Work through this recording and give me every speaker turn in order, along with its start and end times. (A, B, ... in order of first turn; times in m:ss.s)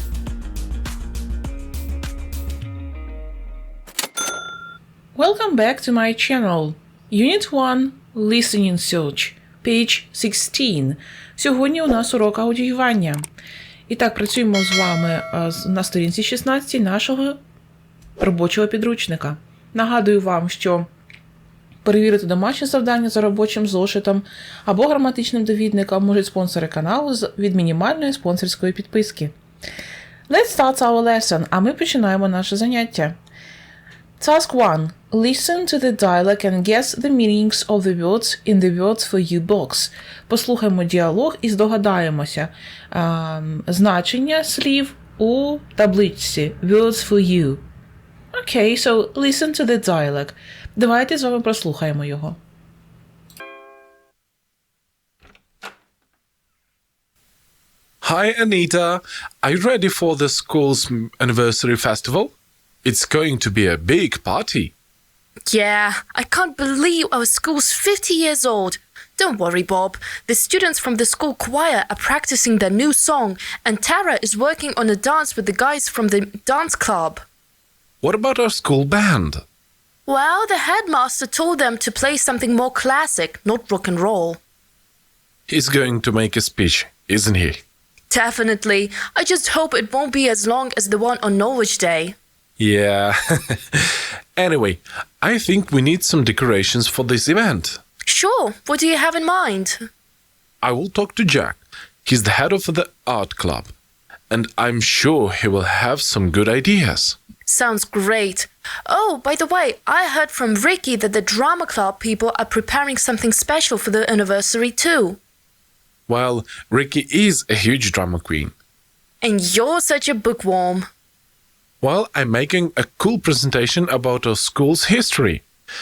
0:05.1-0:13.2 A
0:13.9-0:17.4 A
0:18.2-0:20.9 A
0:21.8-0:29.3 A
0:30.3-0:33.2 A
0:34.2-0:47.6 A
0:48.3-0:52.4 A
0:58.0-1:04.7 B
1:05.5-1:17.2 C
1:18.0-1:19.4 B
1:20.1-1:24.4 C
1:25.5-1:27.6 B
1:28.1-1:32.2 C
1:32.6-1:37.8 B
1:38.0-1:39.9 C
1:40.6-1:43.7 B
1:44.3-1:47.2 B
1:47.5-1:55.2 C
1:56.1-1:58.5 B
1:59.2-2:00.9 C
2:01.8-2:05.4 B